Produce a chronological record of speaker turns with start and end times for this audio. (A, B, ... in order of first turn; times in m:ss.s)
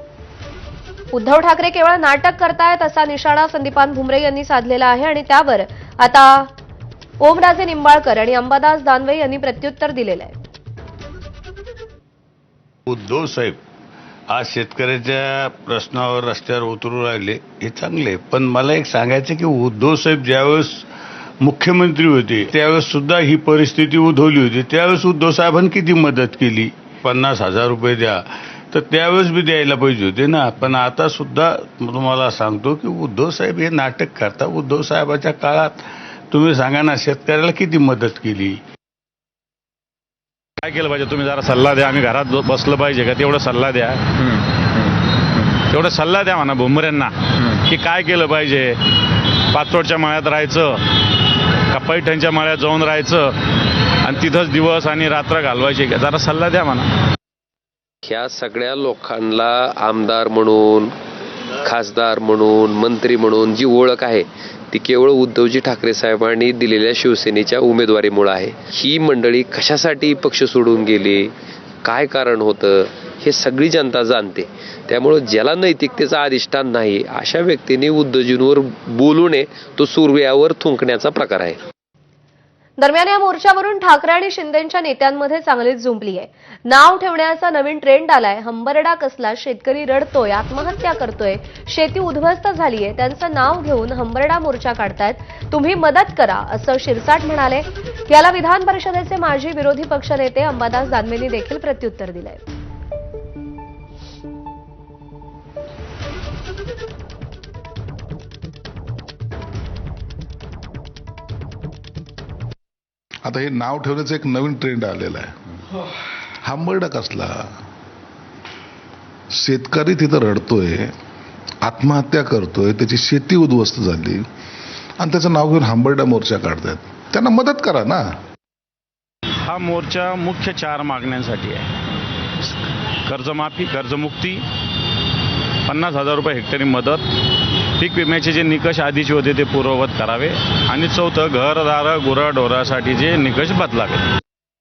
0:01.1-0:06.5 A
0:07.2-0:10.4 A
0:12.9-0:13.6 B
0:14.3-0:20.8 B
0:21.4-0:28.2 B
0:28.7-0:38.6 B
0:40.6-0:44.4 C
0:45.4-0:48.8 C
0:49.5-0:56.9 C
0:58.1-1:00.9 D
1:01.6-1:11.3 D
1:11.8-1:21.6 D
1:22.8-1:42.4 A
1:53.2-1:55.4 E
1:56.4-1:57.5 E
1:59.3-2:00.9 E
2:01.6-2:04.2 E
2:05.0-2:08.0 E
2:09.5-2:11.7 C
2:13.1-2:14.4 C
2:15.7-2:24.1 C